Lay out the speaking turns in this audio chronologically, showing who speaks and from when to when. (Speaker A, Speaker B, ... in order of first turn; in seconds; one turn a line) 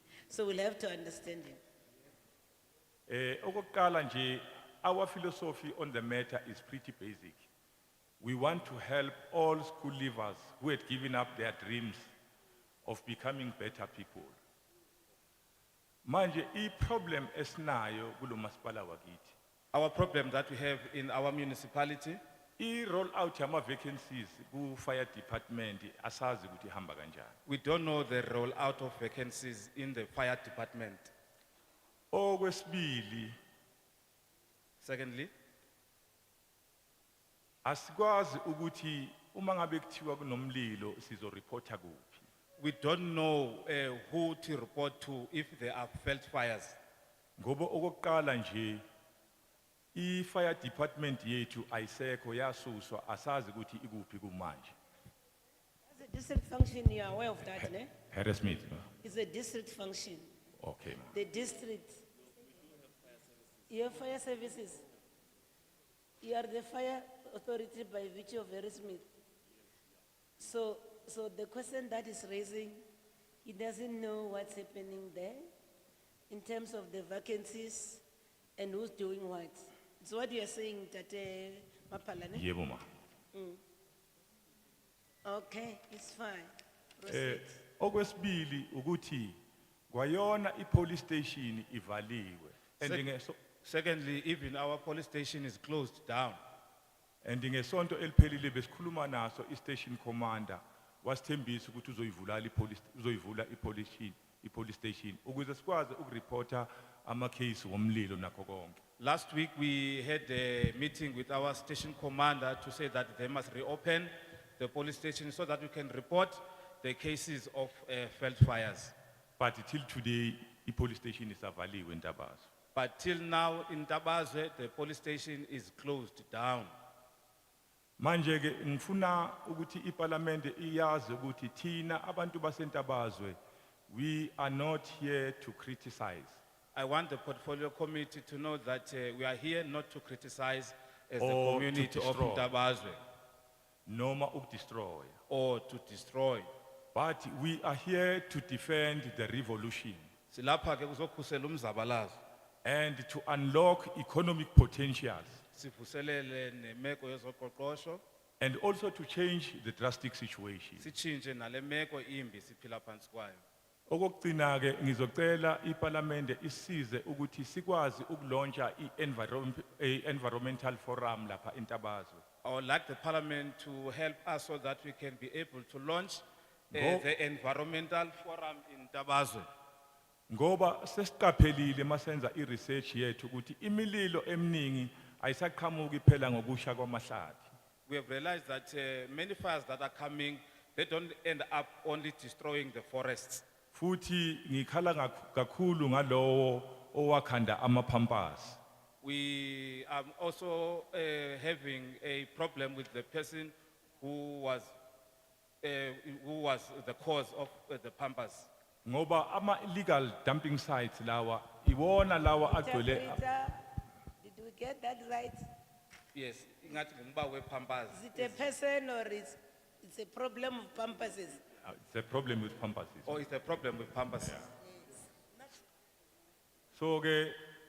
Speaker A: 0.3-1.6
Speaker B: 3.1-7.5
Speaker B: 8.2-12.1
Speaker B: 12.8-14.4
Speaker B: 16.1-19.4
Speaker C: 19.7-22.2
Speaker B: 22.6-27.3
Speaker C: 27.5-31.1
Speaker B: 32.1-33.3
Speaker C: 34.8-35.3
Speaker B: 37.6-42.2
Speaker C: 42.6-46.8
Speaker B: 47.4-48.8
Speaker B: 49.9-54.8
Speaker A: 55.9-57.9
Speaker B: 57.5-58.9
Speaker A: 59.0-60.2
Speaker B: 60.6-61.1
Speaker A: 61.1-62.0
Speaker A: 63.7-64.8
Speaker A: 66.2-69.1
Speaker A: 70.4-72.8
Speaker A: 73.4-75.4
Speaker A: 76.3-78.0
Speaker A: 78.6-82.5
Speaker B: 82.3-82.8
Speaker A: 83.3-83.6
Speaker A: 85.2-87.6
Speaker B: 87.1-89.4
Speaker B: 89.9-93.4
Speaker C: 93.6-96.4
Speaker B: 97.2-108.8
Speaker C: 109.0-118.9
Speaker B: 119.4-122.5
Speaker C: 122.8-126.7
Speaker B: 128.0-133.4
Speaker B: 133.9-136.4
Speaker C: 136.8-143.0
Speaker B: 141.2-142.5
Speaker B: 143.9-145.2
Speaker C: 145.3-146.5
Speaker B: 146.9-150.1
Speaker C: 150.3-152.2
Speaker B: 152.6-155.4
Speaker C: 155.5-158.0
Speaker B: 158.4-160.9
Speaker C: 160.8-163.4
Speaker B: 163.9-172.2
Speaker C: 172.4-179.5
Speaker B: 176.7-177.1
Speaker B: 180.3-187.5
Speaker C: 187.9-193.4
Speaker B: 193.7-198.6
Speaker C: 199.0-204.7
Speaker C: 205.6-208.5
Speaker B: 208.8-213.2
Speaker A: 212.5-213.6
Speaker A: 214.2-215.4
Speaker C: 216.1-218.4
Speaker A: 217.9-221.4
Speaker B: 221.6-223.2
Speaker C: 223.1-224.5
Speaker A: 224.7-225.5
Speaker B: 226.8-227.4